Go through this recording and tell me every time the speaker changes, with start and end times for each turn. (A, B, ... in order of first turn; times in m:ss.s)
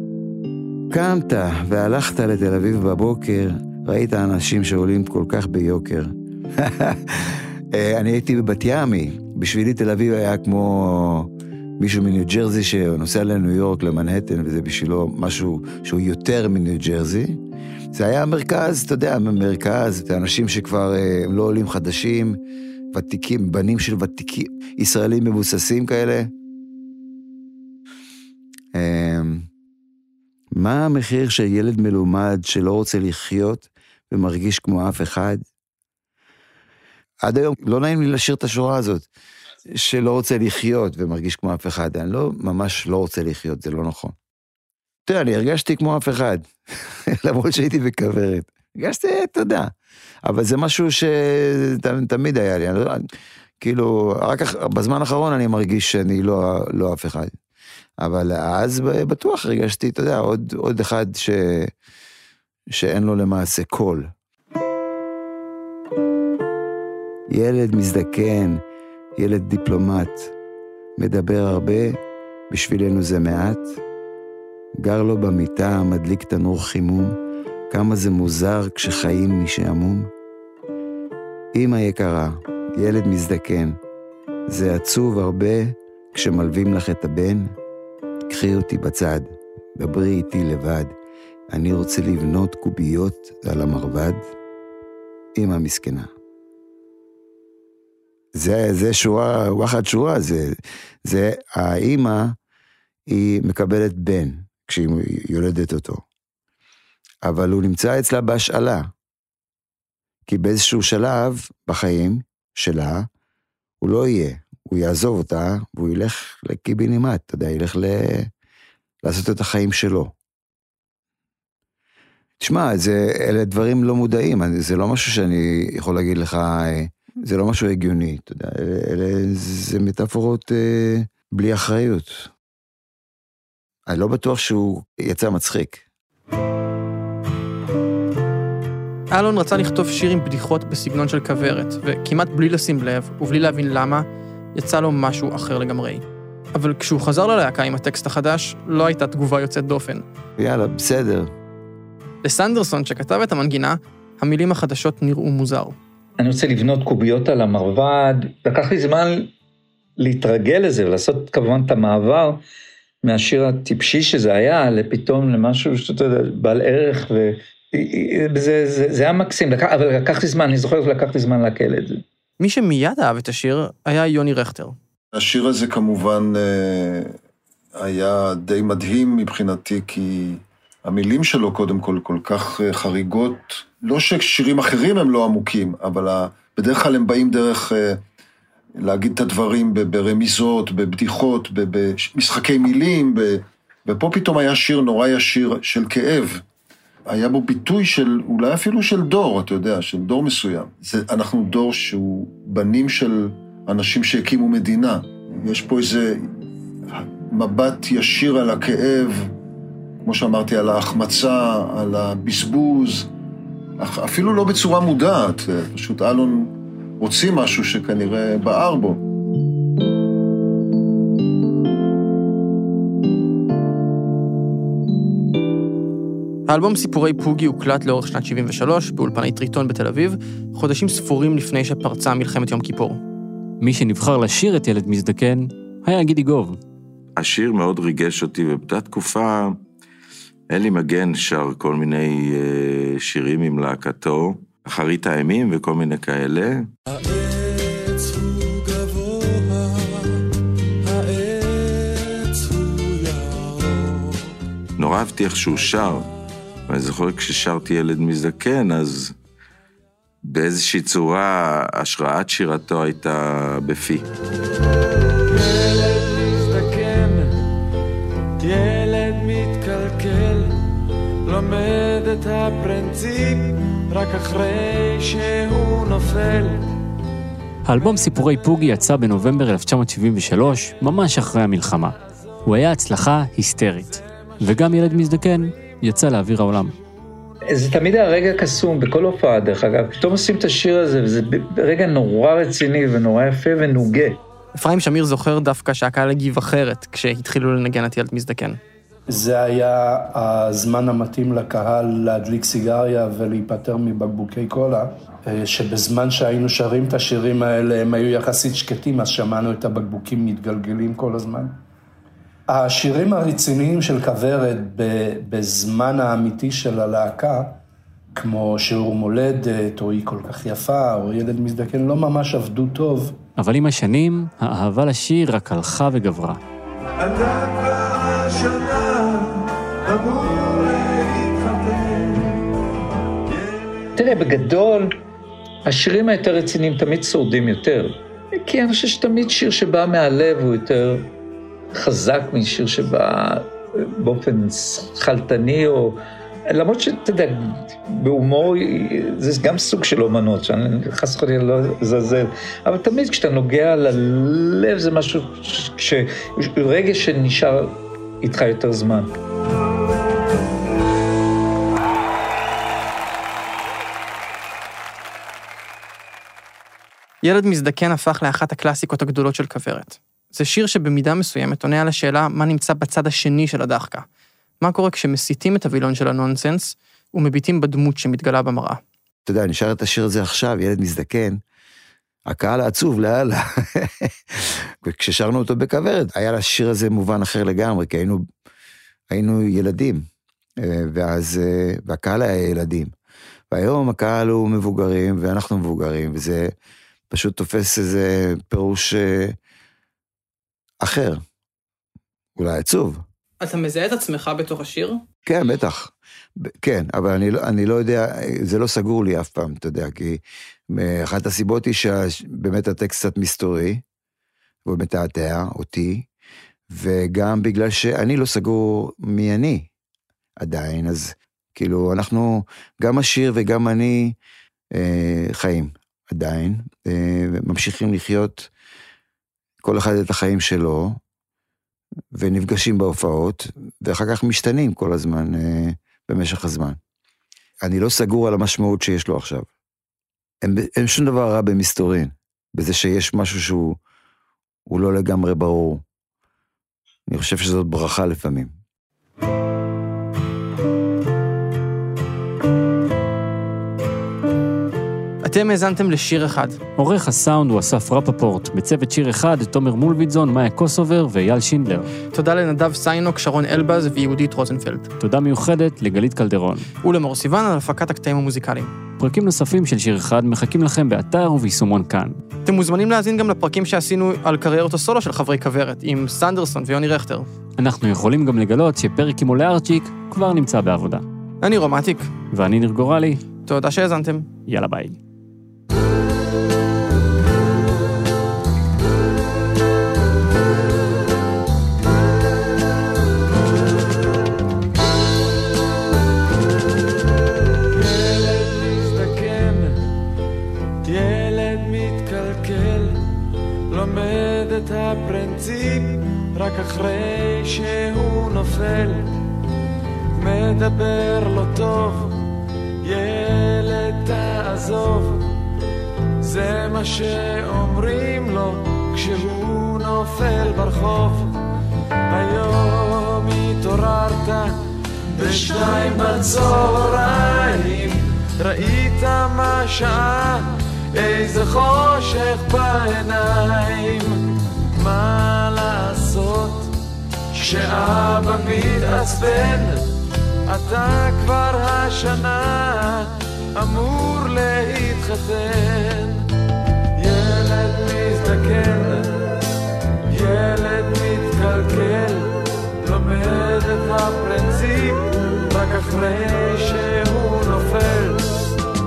0:00.9-0:17.4 A
0:17.9-0:22.4 A
0:22.9-0:26.3 A
0:28.7-0:29.5 A
0:30.5-0:35.4 A
0:37.2-0:39.0 A
0:39.7-0:44.1 A
0:45.0-0:49.7 A
0:50.2-0:53.0 A
0:53.6-0:57.3 A
0:58.0-1:01.7 A
1:02.7-1:04.1 A
1:07.3-1:08.6 A
1:09.2-1:10.3 A
1:11.0-1:12.0 A
1:12.5-1:13.8 A
1:14.8-1:17.2 A
1:17.7-1:20.1 A
1:21.5-1:23.8 A
1:24.5-1:27.5 A
1:28.3-1:30.9 A
1:31.5-1:34.2 A
1:35.4-1:36.1 A
1:38.3-1:42.4 A
1:43.1-1:46.0 A
1:47.2-1:48.9 A
1:50.3-1:53.1 A
1:53.8-1:58.3 A
1:59.0-2:00.1 A
2:02.4-2:12.3 A
2:13.8-2:15.8 A
2:19.1-2:30.0 B
2:30.4-2:31.3 A
2:32.2-2:35.7 B
2:36.2-2:39.3 C
2:40.0-2:42.4 C
2:43.0-2:52.0 C
2:52.4-2:54.7 B
2:55.1-2:57.1 D
2:57.8-3:08.0 D
3:08.8-3:16.4 D
3:17.1-3:26.2 D
3:26.9-3:29.3 D
3:30.0-3:33.1 D
3:33.8-3:39.0 D
3:46.5-3:53.0 B
3:53.6-3:56.6 E
3:57.2-3:59.6 F
4:00.5-4:06.7 F
4:06.9-4:10.0 G
4:10.8-4:14.0 G
4:14.8-4:16.0 F
4:16.7-4:19.1 F
4:20.2-4:24.0 F
4:25.3-4:27.4 G
4:28.4-4:30.6 G
4:31.2-4:36.7 G
4:37.6-4:46.7 E
4:47.5-4:54.2 C
4:54.5-4:58.6 B
4:59.1-5:11.6 H
5:12.5-5:17.6 H
5:18.1-5:23.2 H
5:23.4-5:26.4 E
5:27.0-5:32.4 G
5:34.0-5:34.9 C
5:35.6-5:41.1 C
5:41.7-5:46.0 C
5:46.5-5:59.1 C
6:07.2-6:14.0 B
6:14.6-6:18.8 B
6:19.2-6:21.4 A
6:22.2-6:28.2 A
6:29.1-6:30.0 A
6:30.6-6:32.9 A
6:33.5-6:36.5 A
6:37.1-6:39.4 A
6:40.8-6:41.2 A
6:42.4-6:43.0 A
6:43.4-6:45.0 B
6:45.2-6:53.8 A
6:54.6-6:56.1 A
6:56.7-6:59.7 A
7:00.4-7:04.1 A
7:04.7-7:08.5 A
7:09.6-7:11.0 A
7:12.1-7:16.8 A
7:17.6-7:19.5 A
7:20.4-7:23.8 A
7:24.7-7:25.8 A
7:27.1-7:28.5 A
7:35.2-7:36.6 B
7:36.8-7:41.9 E
7:42.1-7:44.9 B
7:45.0-7:46.7 E
7:46.8-7:48.7 B
7:49.0-7:52.2 E
7:52.4-7:57.3 B
7:57.6-8:01.0 E
8:01.4-8:02.1 B
8:02.3-8:03.2 E
8:03.4-8:04.3 B
8:04.4-8:05.0 E
8:17.7-8:19.9 G
8:20.8-8:23.0 G
8:23.7-8:29.1 G
8:30.2-8:32.2 G
8:32.8-8:35.3 G
8:36.2-8:41.4 G
8:42.1-8:44.6 G
8:45.1-8:54.2 G
8:54.8-8:56.7 G
8:57.3-8:59.9 G
9:00.4-9:06.2 G
9:07.0-9:09.3 G
9:10.1-9:18.5 G